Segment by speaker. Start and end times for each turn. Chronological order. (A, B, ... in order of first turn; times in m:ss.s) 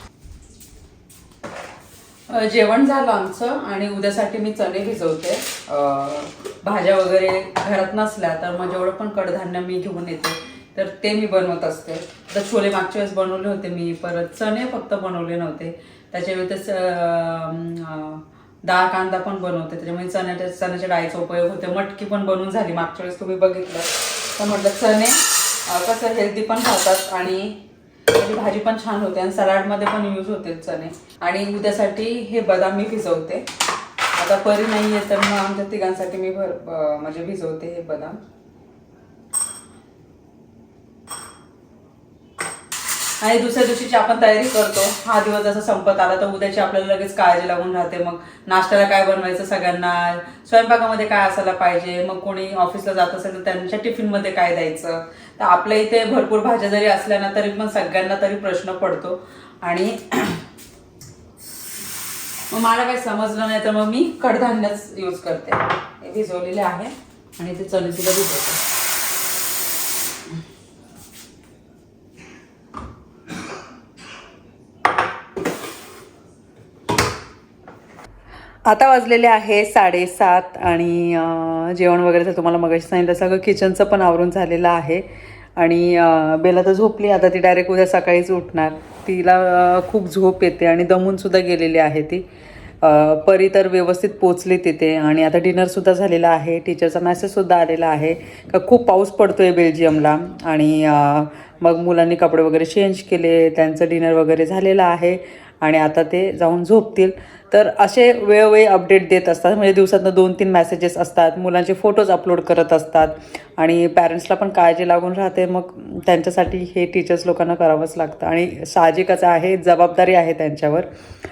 0:02.3-0:27.6 A
0:28.1-0:33.5 A
0:34.1-0:38.2 A
0:43.2-1:00.4 A
1:02.5-1:08.6 A
1:18.7-1:25.1 A
1:25.6-1:32.3 A
1:32.8-2:00.9 A